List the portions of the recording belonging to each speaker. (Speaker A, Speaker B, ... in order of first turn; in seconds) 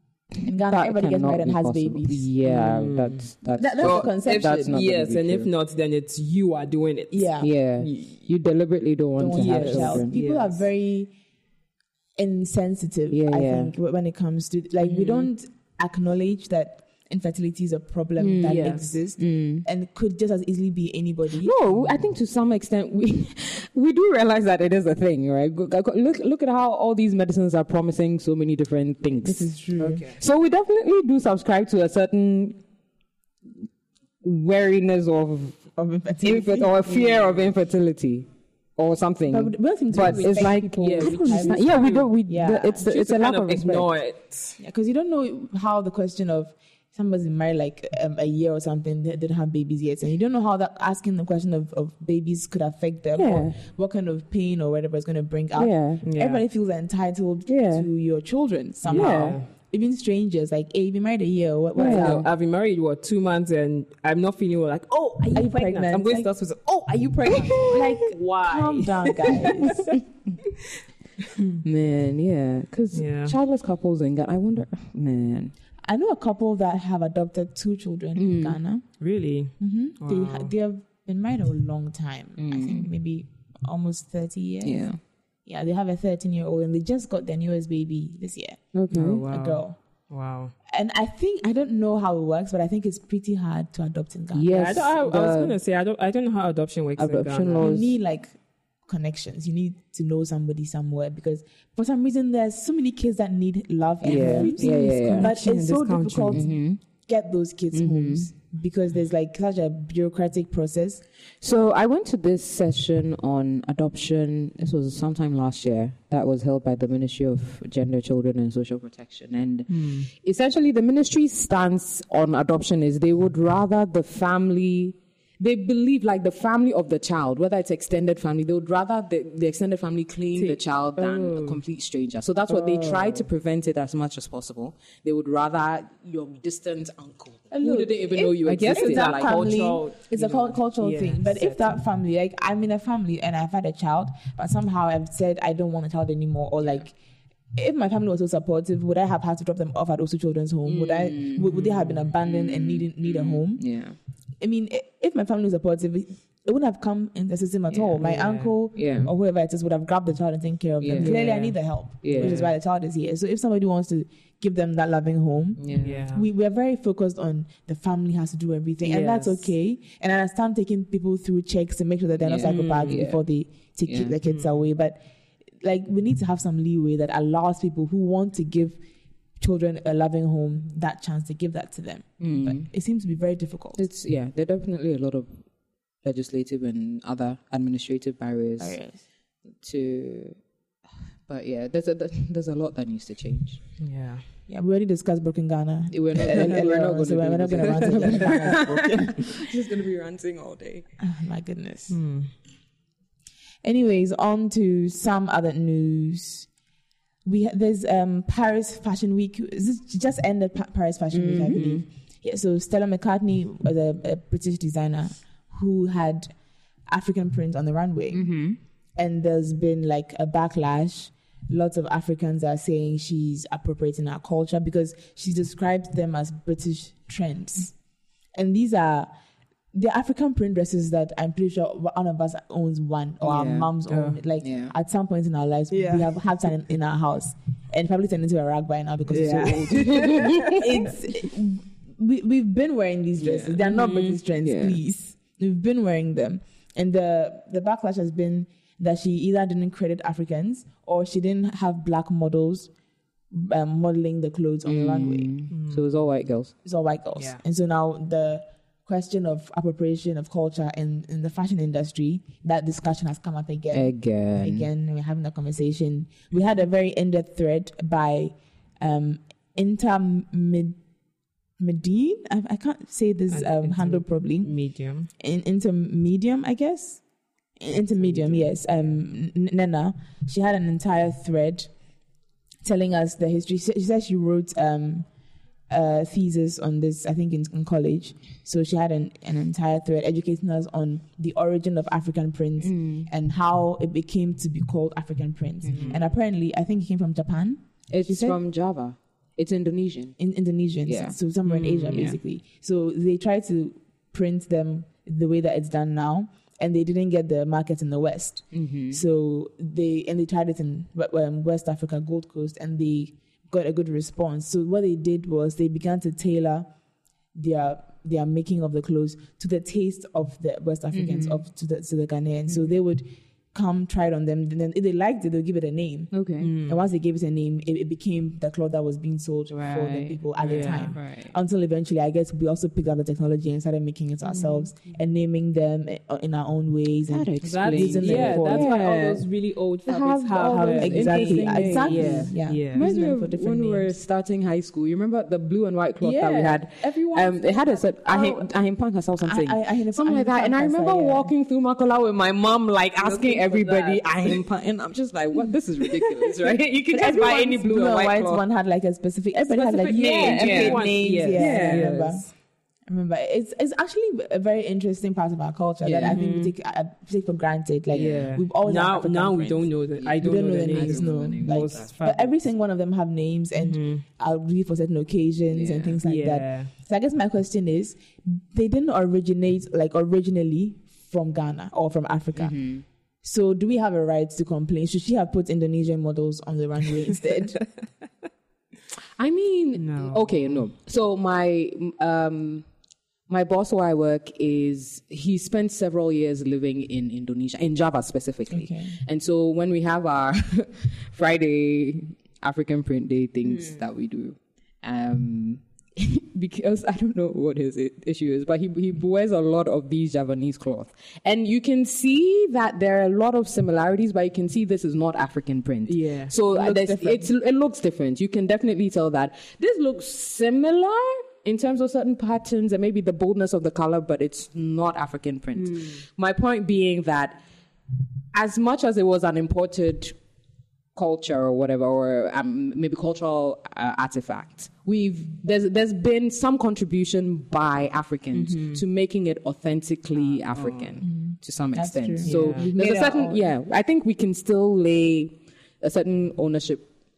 Speaker A: 0.3-2.3, 3.6-4.7, 7.1-7.5, 9.2-11.1, 12.2-21.9, 29.2-30.0, 35.8-36.7, 39.3-42.9, 44.6-62.2, 65.3-66.3, 67.6-69.9, 75.8-78.8, 79.6-89.8, 90.7-94.8, 97.6-111.0, 137.5-146.9, 147.5-153.7, 154.4-175.0, 175.6-178.8, 179.4-183.8, 188.6-189.0, 194.5-199.2, 201.0-202.0, 203.6-206.5, 207.2-216.3, 216.9-218.4, 218.9-227.8, 228.3-229.1, 229.7-240.0, 240.5-252.7, 253.3-255.3, 256.6-270.8, 271.6-274.5, 275.2-277.0, 277.6-281.7, 282.6-285.1, 285.7-298.4, 300.2-316.7, 317.3-338.9, 340.5-343.9, 347.2-348.5, 349.2-351.3, 356.9-362.3, 362.9-382.6, 383.2-387.6, 398.5-399.0, 416.5-417.3, 441.0-443.4
Speaker B: 0.6-5.5, 7.4-10.1, 13.1-13.7, 14.8-15.3, 18.2-19.6, 21.4-32.6, 34.2-43.9, 53.1-53.6, 55.5-56.0, 57.5-57.9, 58.9-59.4, 61.8-62.3, 71.6-75.5, 78.2-78.6, 82.3-82.9, 84.6-85.0, 88.7-89.2, 94.3-95.5, 97.0-97.9, 104.0-105.3, 106.3-106.8, 107.7-108.3, 111.4-139.6, 150.6-154.0, 157.7-158.2, 158.7-159.1, 160.8-162.4, 165.6-166.0, 168.8-169.5, 172.2-173.2, 173.9-174.1, 182.2-182.7, 183.7-185.5, 186.0-188.9, 189.5-190.4, 191.2-193.6, 195.9-200.9, 211.1-211.8, 218.1-218.6, 233.2-233.7, 234.4-234.7, 239.4-240.6, 243.2-244.8, 254.6-256.5, 263.7-264.6, 292.6-293.1, 295.6-296.0, 297.9-300.2, 300.8-302.2, 308.5-309.0, 320.9-321.4, 326.1-326.5, 329.5-331.3, 334.2-334.7, 337.1-339.2, 339.9-358.4, 359.5-361.9, 365.8-366.2, 370.0-371.9, 375.5-376.0, 382.4-382.8, 389.2-392.7, 393.3-427.4, 428.3-430.2, 430.9-446.9
Speaker C: 2.4-7.8, 9.3-10.6, 18.4-18.9, 29.8-30.2, 36.8-37.4, 39.9-42.1, 42.9-44.6, 56.0-56.4, 58.9-59.5, 61.8-69.9, 71.3-71.6, 72.9-73.3, 79.0-80.5, 88.9-90.5, 94.5-97.7, 104.0-106.4, 119.7-120.1, 130.3-131.6, 132.5-133.3, 138.4-141.8, 151.6-152.0, 158.0-158.5, 161.0-162.5, 165.8-166.3, 172.4-173.0, 174.2-174.6, 193.8-194.2, 197.8-199.1, 201.9-202.3, 211.5-211.8, 233.9-234.2, 235.7-236.1, 239.1-240.6, 255.5-255.8, 257.1-257.4, 273.3-275.1, 277.9-278.5, 295.7-296.0, 326.4-326.8, 330.4-330.9, 337.4-342.9, 346.0-347.6, 352.9-354.4, 355.9-356.5, 359.9-362.3, 366.0-366.5, 367.9-372.4, 373.6-374.0, 376.0-376.7, 389.7-390.7, 403.5-403.7, 415.9-416.3, 425.5-426.0, 438.3-438.8, 440.2-441.0, 442.2-442.7